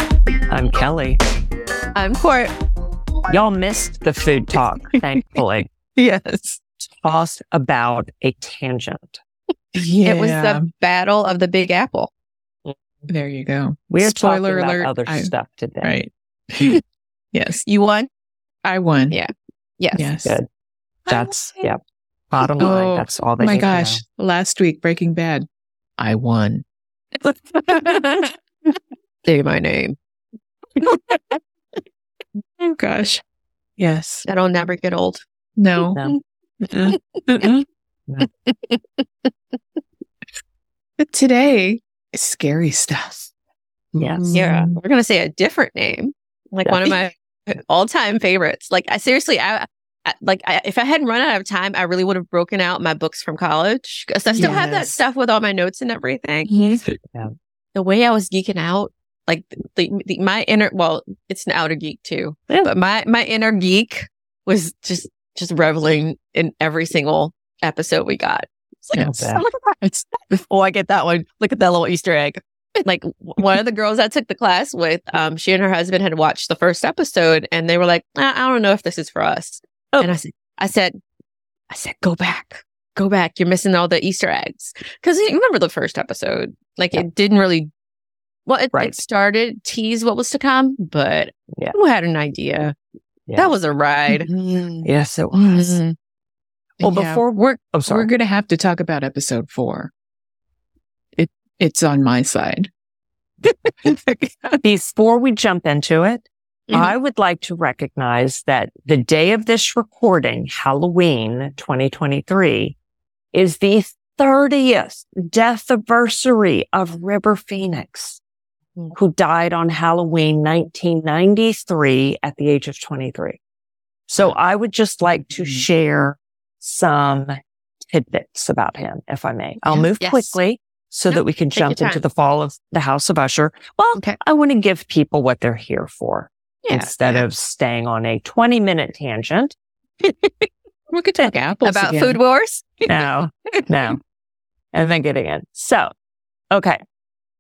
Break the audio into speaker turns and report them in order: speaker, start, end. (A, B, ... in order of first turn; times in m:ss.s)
0:00.5-0:01.2 A
0:02.0-0:02.5 B
0:03.3-0:05.7 A
0:06.0-0:06.6 B
0:06.9-0:09.2 A
0:09.7-0:10.6 C
0:10.0-0:12.1 B
0:13.1-0:16.8 C
0:13.9-0:15.9 A
0:17.3-0:17.6 C
0:17.7-0:18.1 B
0:18.6-0:19.2 C
0:19.1-0:20.1 B
0:19.9-0:20.4 C
0:21.1-0:21.7 C
0:21.1-0:21.8 A
0:22.3-0:24.0 A
0:22.6-0:25.5 C
0:26.0-0:26.6 C
0:27.7-0:28.1 C
0:27.7-0:28.0 B
0:29.2-0:30.0 B
0:30.8-0:31.2 C
0:32.6-0:33.2 C
0:33.8-0:34.3 C
0:34.3-0:35.2 B
0:35.6-0:36.0 C
0:36.6-0:37.6 C
0:38.5-0:39.3 B
0:41.0-0:43.3 C
0:43.9-0:44.4 A
0:44.2-0:44.8 C
0:44.3-0:56.8 B
0:46.6-0:47.0 A
0:54.4-0:54.9 C
0:56.5-0:56.8 C
0:57.8-1:09.8 B
1:08.9-1:10.1 C
1:09.0-1:09.4 A
1:10.3-1:21.0 B
1:21.7-1:27.7 B
1:28.5-1:32.8 B
1:28.7-1:29.0 A
1:33.3-1:33.5 A
1:33.4-1:34.3 B
1:34.2-1:34.9 C
1:34.8-1:35.8 A
1:35.3-1:36.0 B
1:36.8-1:37.2 C
1:36.8-1:38.1 A
1:37.9-1:39.9 C
1:41.2-1:42.7 C
1:43.8-1:44.6 C
1:44.6-1:52.8 A
1:53.3-1:58.2 A
1:58.9-2:03.4 A
2:04.1-2:19.6 A
2:05.4-2:05.6 C
2:10.0-2:10.4 B
2:11.1-2:12.0 B
2:16.6-2:17.2 B
2:20.9-2:22.2 C
2:21.6-2:22.7 B
2:22.9-2:24.0 A
2:24.7-2:25.9 A
2:26.5-2:26.8 A